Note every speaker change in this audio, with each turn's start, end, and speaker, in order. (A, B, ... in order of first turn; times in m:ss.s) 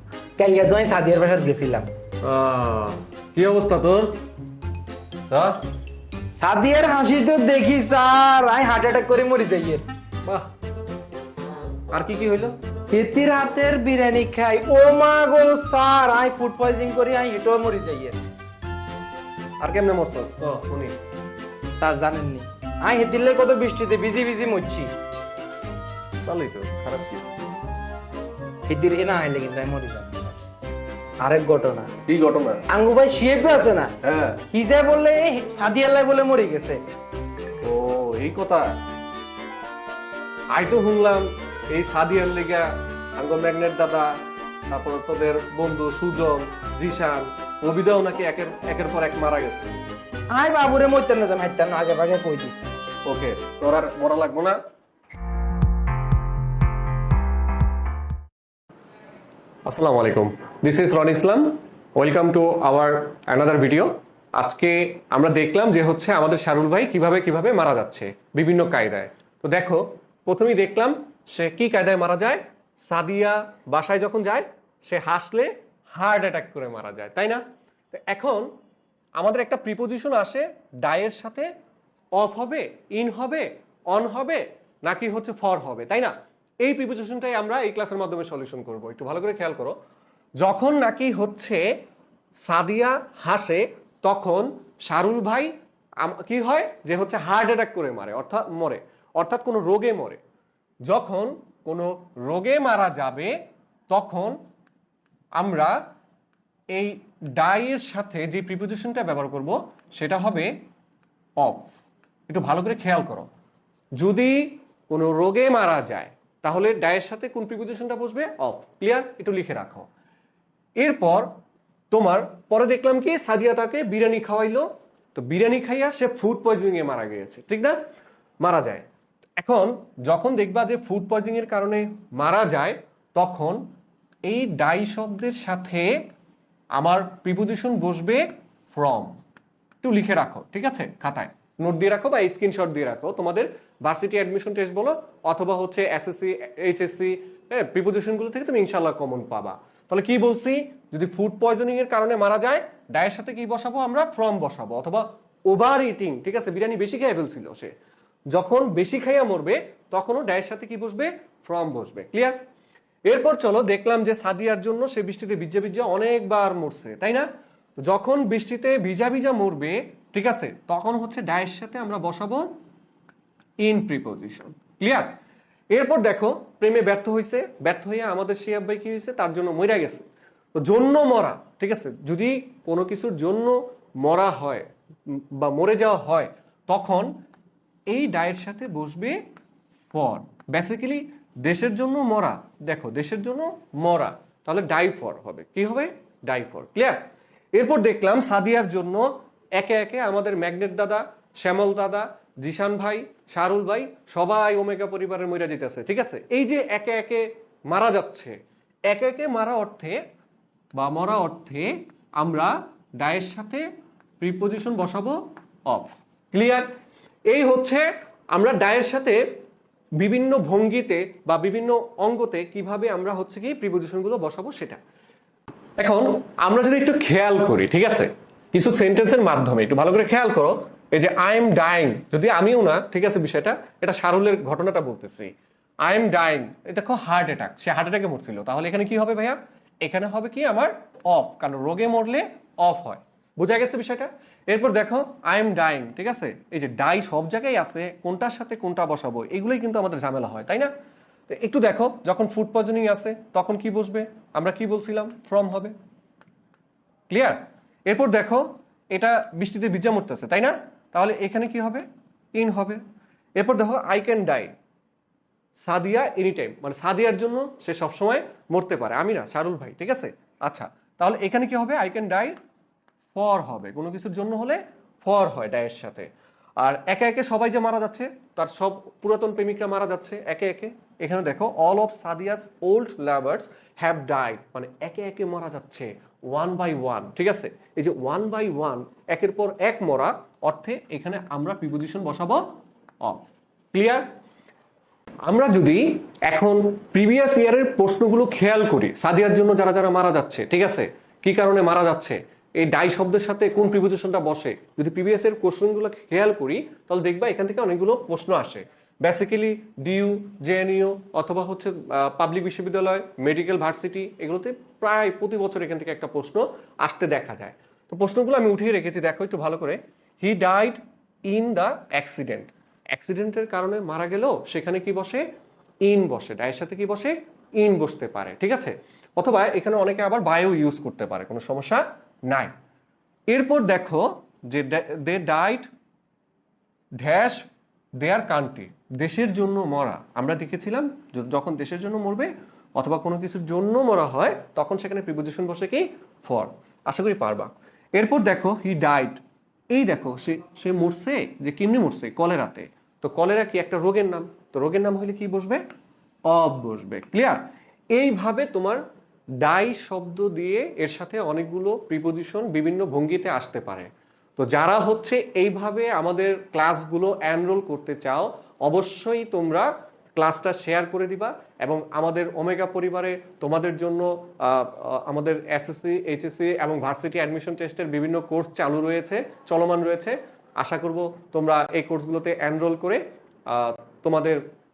0:00.4-0:01.9 A
0:02.2-0:04.1 B
0:05.3-0:05.6 B
0:06.3-0:09.9 A
0:11.9-0:12.6 B
0:12.9-0:18.2 A
0:19.6-0:20.9 B
0:21.8-0:24.9 A
0:26.2-0:27.4 B
0:28.7-0:30.4 A
0:31.2-0:31.9 A
0:32.1-0:32.6 B
0:32.7-0:33.9 A
0:34.0-0:34.4 B
0:34.5-0:36.8 A
0:37.6-0:38.6 B
0:40.5-0:44.1 B
0:44.7-0:49.8 B
0:50.3-0:52.7 A
0:53.0-0:54.6 B
0:59.7-1:18.5 B
1:19.2-1:21.5 B
1:22.2-1:29.8 B
1:30.4-1:31.6 B
1:32.4-1:40.2 B
1:40.9-1:43.3 B
1:43.9-1:44.4 B
1:45.4-1:45.8 B
1:46.8-1:50.5 B
1:51.4-1:51.7 B
1:52.3-1:53.3 B
1:54.0-1:59.9 B
2:00.8-2:01.3 B
2:01.9-2:07.8 B
2:08.4-2:08.9 B
2:09.4-2:13.6 B
2:14.3-2:15.9 B
2:16.8-2:19.2 B
2:19.8-2:37.7 B
2:38.3-2:42.4 B
2:43.1-2:47.3 B
2:47.9-2:52.5 B
2:53.6-2:55.1 B
2:55.7-3:07.1 B
3:07.9-3:09.2 B
3:09.9-3:17.0 B
3:17.6-3:28.4 B
3:28.9-3:30.0 B
3:30.8-3:33.6 B
3:34.2-3:36.7 B
3:37.3-3:39.2 B
3:40.0-3:44.8 B
3:45.8-3:55.3 B
3:55.8-4:10.7 B
4:11.3-4:15.7 B
4:17.1-4:22.8 B
4:23.4-4:24.5 B
4:25.7-4:32.3 B
4:33.1-4:52.5 B
4:53.0-4:54.0 B
4:55.3-5:25.2 B
5:25.9-5:32.5 B
5:33.3-5:35.7 B
5:37.0-5:37.4 B
5:38.0-5:49.2 B
5:49.7-5:55.6 B
5:56.3-5:57.4 B
5:57.9-5:58.8 B
5:59.4-6:24.4 B